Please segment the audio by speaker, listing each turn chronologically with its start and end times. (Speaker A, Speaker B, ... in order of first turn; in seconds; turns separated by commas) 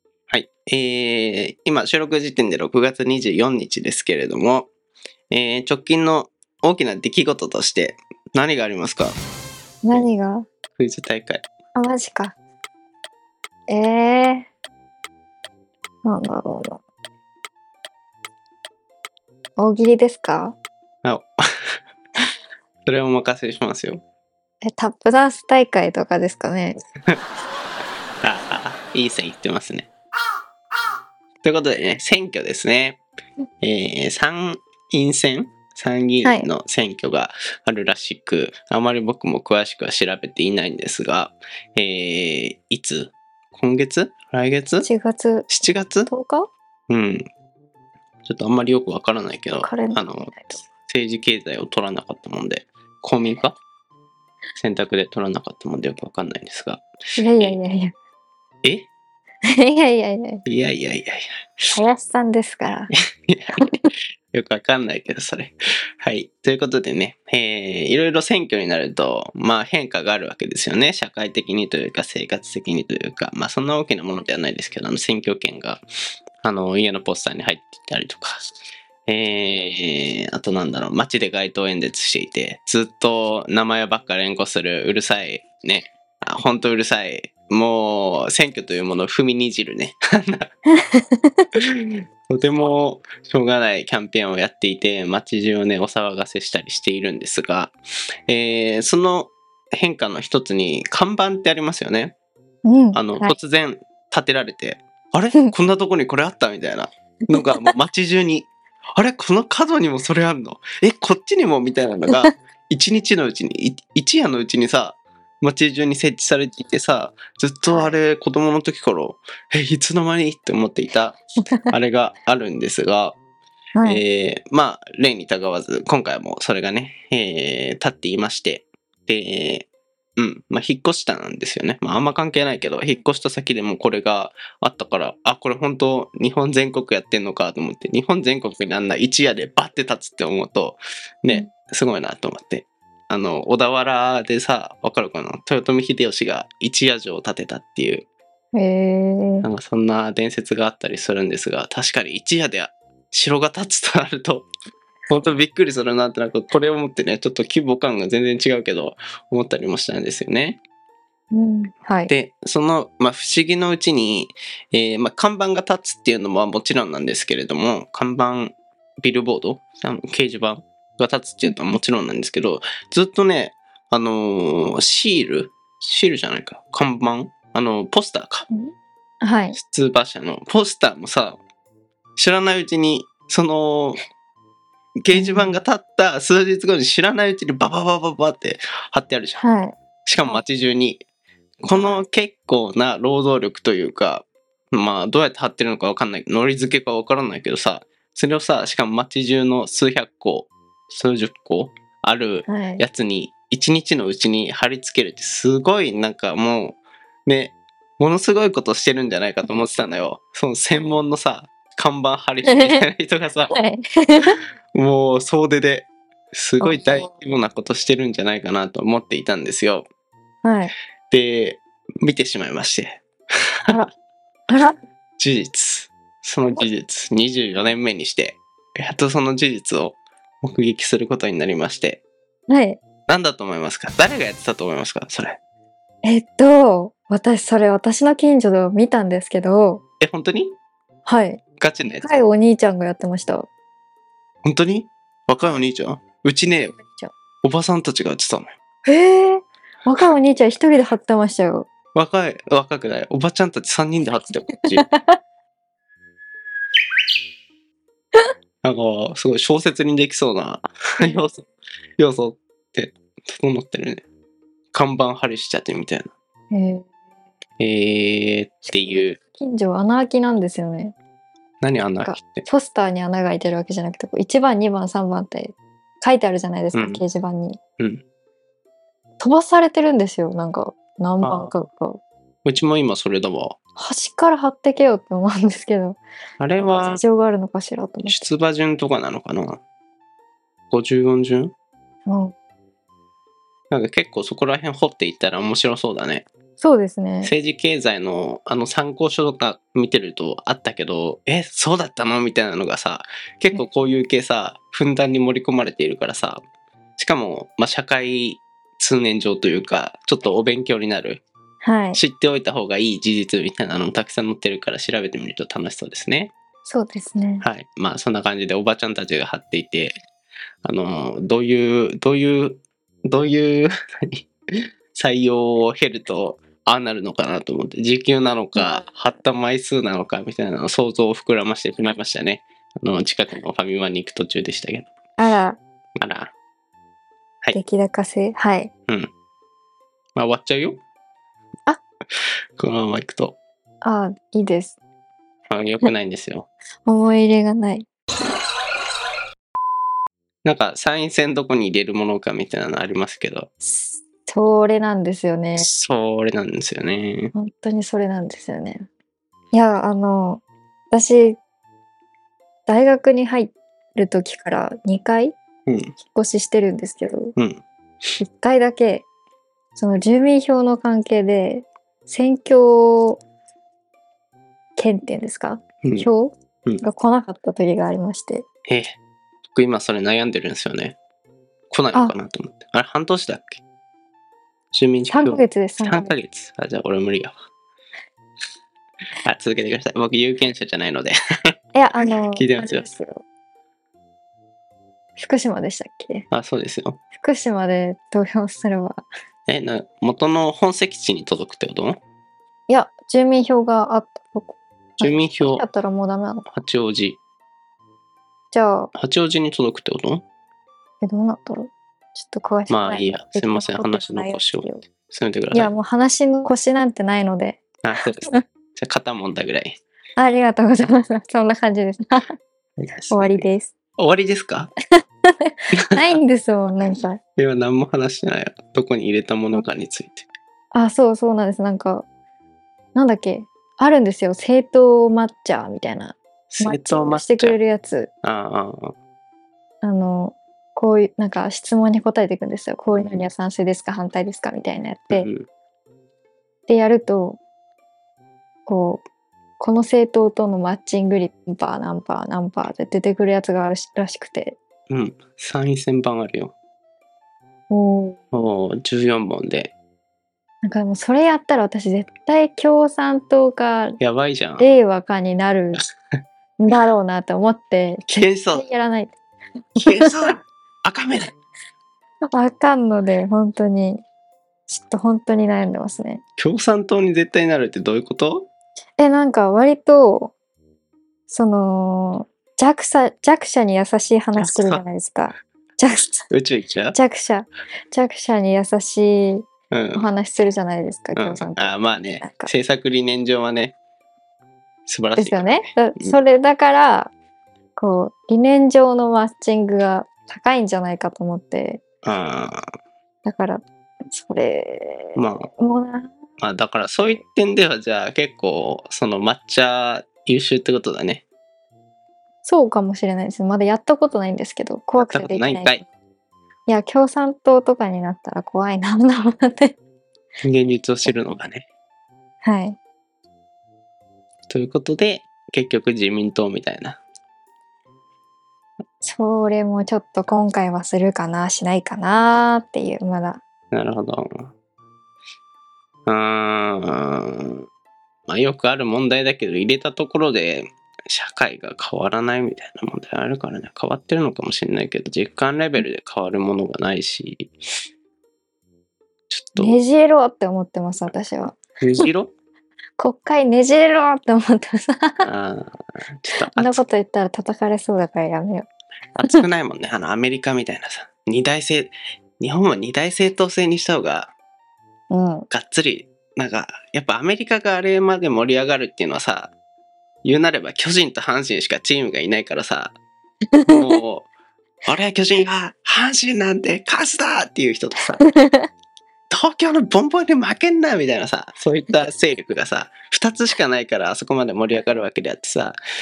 Speaker A: 0.3-4.7, Speaker A: 5.3-9.2, Speaker B: 9.8-10.5, Speaker A: 10.8-11.4, Speaker B: 11.7-12.3, Speaker B: 13.7-14.5, Speaker B: 16.0-16.8, Speaker B: 19.6-20.6, Speaker A: 21.0-21.8, Speaker A: 22.8-24.0, Speaker B: 24.6-26.8, Speaker A: 28.2-29.9, Speaker A: 31.4-33.0, Speaker A: 33.6-44.9, Speaker B: 36.2-36.5, Speaker B: 44.8-45.5, Speaker A: 45.5-46.1, Speaker B: 46.0-46.5, Speaker A: 46.9-47.3, Speaker A: 48.2-53.6, Speaker B: 49.6-50.6, Speaker A: 54.6-56.8, Speaker B: 57.2-58.0, Speaker A: 58.6-58.9, Speaker B: 59.5-60.4, Speaker A: 60.5-61.6, Speaker B: 61.7-62.9, Speaker A: 63.2-63.7, Speaker B: 63.6-63.9, Speaker A: 64.3-75.8, Speaker A: 76.4-78.4, Speaker A: 79.0-90.5, Speaker B: 90.8-91.5, Speaker A: 91.9-97.7, Speaker A: 98.3-102.2, Speaker B: 102.6-103.3, Speaker A: 102.9-123.2, Speaker B: 123.7-124.0, Speaker A: 123.8-148.1, Speaker B: 148.5-149.5, Speaker A: 149.4-154.5, Speaker A: 155.1-160.6, Speaker B: 161.3-162.1, Speaker A: 162.1-178.5, Speaker B: 171.4-171.7, Speaker B: 178.5-179.6, Speaker A: 179.5-181.4, Speaker A: 182.2-184.0, Speaker A: 185.0-189.4, Speaker B: 185.1-185.6, Speaker B: 189.4-190.4, Speaker A: 190.1-191.0, Speaker A: 191.6-213.6, Speaker B: 202.5-202.8, Speaker B: 212.4-212.8, Speaker B: 213.5-214.4, Speaker A: 214.7-219.9, Speaker B: 216.6-217.1, Speaker B: 220.4-220.7, Speaker A: 221.1-223.0, Speaker B: 224.5-224.8, Speaker A: 225.2-232.0, Speaker B: 232.5-232.8, Speaker A: 233.1-235.4, Speaker B: 236.0-239.8, Speaker A: 240.0-240.6, Speaker B: 241.0-243.5, Speaker A: 241.6-242.2, Speaker A: 244.4-246.8, Speaker B: 246.7-247.1, Speaker A: 247.4-248.5, Speaker B: 248.8-251.7, Speaker A: 251.9-254.8, Speaker B: 254.8-255.2, Speaker A: 258.6-261.5, Speaker A: 262.0-264.1, Speaker A: 264.7-266.1, Speaker B: 266.5-266.9, Speaker A: 267.6-269.2, Speaker B: 268.6-270.9, Speaker A: 271.6-272.4, Speaker B: 272.0-277.6, Speaker A: 276.7-277.0, Speaker B: 279.2-282.0, Speaker A: 281.2-281.5, Speaker A: 282.4-283.6, Speaker B: 283.8-286.0, Speaker A: 286.4-287.0, Speaker B: 286.7-288.3, Speaker A: 288.0-289.6, Speaker A: 290.7-291.5, Speaker B: 292.1-292.3, Speaker A: 293.7-296.2, Speaker B: 296.6-297.3, Speaker A: 297.2-306.4, Speaker A: 307.0-311.2, Speaker B: 311.6-312.0, Speaker A: 311.9-316.3, Speaker B: 316.6-317.5, Speaker A: 317.4-320.0, Speaker A: 320.6-324.3, Speaker A: 324.9-334.9, Speaker B: 335.2-335.6, Speaker A: 336.0-336.3, Speaker B: 337.5-338.7, Speaker A: 340.1-340.8, Speaker A: 342.6-343.4, Speaker B: 343.8-344.8, Speaker A: 345.5-346.5, Speaker B: 346.9-347.9, Speaker A: 350.4-353.5, Speaker B: 353.6-355.7, Speaker A: 355.6-357.3, Speaker B: 357.3-358.9, Speaker B: 359.5-361.4, Speaker B: 362.6-365.4, Speaker A: 365.6-365.9, Speaker B: 366.1-367.3, Speaker A: 367.4-367.6, Speaker B: 368.2-369.1, Speaker B: 369.7-373.2, Speaker B: 374.8-378.4, Speaker A: 375.8-376.1, Speaker A: 378.7-379.0, Speaker A: 379.5-381.0, Speaker A: 381.7-383.6, Speaker A: 384.7-387.3, Speaker B: 385.1-386.1, Speaker A: 389.2-391.1, Speaker B: 391.7-393.2, Speaker A: 392.3-392.9, Speaker B: 395.2-396.3, Speaker A: 396.3-397.0, Speaker B: 397.1-399.1, Speaker A: 399.5-402.0, Speaker B: 402.7-406.4, Speaker A: 405.0-405.6, Speaker A: 406.5-407.2, Speaker B: 408.5-408.9, Speaker A: 408.9-410.2, Speaker B: 411.0-414.8, Speaker A: 412.7-415.7, Speaker B: 415.5-417.6, Speaker A: 417.8-419.8, Speaker B: 420.2-422.3, Speaker A: 422.8-424.7, Speaker B: 423.1-423.7, Speaker B: 425.3-427.2, Speaker A: 425.8-426.2, Speaker A: 427.4-430.3, Speaker B: 430.7-432.1, Speaker B: 432.9-438.1, Speaker A: 436.5-437.6, Speaker A: 438.2-438.9, Speaker B: 439.8-445.3, Speaker A: 442.9-443.2, Speaker A: 445.1-445.5, Speaker B: 446.7-447.4, Speaker B: 448.6-449.0, Speaker B: 449.6-454.6, Speaker A: 454.9-456.5, Speaker B: 457.7-458.2, Speaker A: 458.3-459.7, Speaker B: 460.6-464.0, Speaker A: 464.0-464.7, Speaker B: 464.6-465.8, Speaker B: 466.6-469.1, Speaker A: 468.1-468.6, Speaker B: 469.8-470.3, Speaker A: 469.8-471.4, Speaker B: 472.2-474.0, Speaker B: 474.7-476.2, Speaker A: 476.4-478.5, Speaker B: 479.0-480.3, Speaker B: 481.3-486.3, Speaker A: 484.4-484.8, Speaker A: 486.3-487.0, Speaker B: 486.9-492.5, Speaker A: 489.7-490.1, Speaker A: 491.1-493.8, Speaker A: 494.9-496.2, Speaker B: 495.1-497.1, Speaker B: 497.8-501.8, Speaker A: 502.0-502.6, Speaker B: 503.2-506.1, Speaker A: 505.1-505.5, Speaker A: 506.4-511.2, Speaker B: 512.4-515.9, Speaker A: 515.0-515.8, Speaker B: 516.7-519.8, Speaker A: 520.4-521.7, Speaker B: 522.4-522.8, Speaker A: 524.5-527.0, Speaker B: 529.0-533.4, Speaker A: 533.7-534.5, Speaker A: 536.1-537.6, Speaker A: 538.3-547.5, Speaker A: 549.3-549.8, Speaker B: 549.5-551.6, Speaker A: 551.8-552.3, Speaker B: 553.0-555.3, Speaker A: 555.2-556.8, Speaker B: 556.3-558.7, Speaker A: 559.1-564.3, Speaker B: 565.1-565.5, Speaker A: 565.5-569.5, Speaker A: 570.2-572.9, Speaker B: 573.5-574.0, Speaker A: 573.7-574.3, Speaker A: 574.8-578.3, Speaker B: 578.2-578.7, Speaker A: 579.3-585.8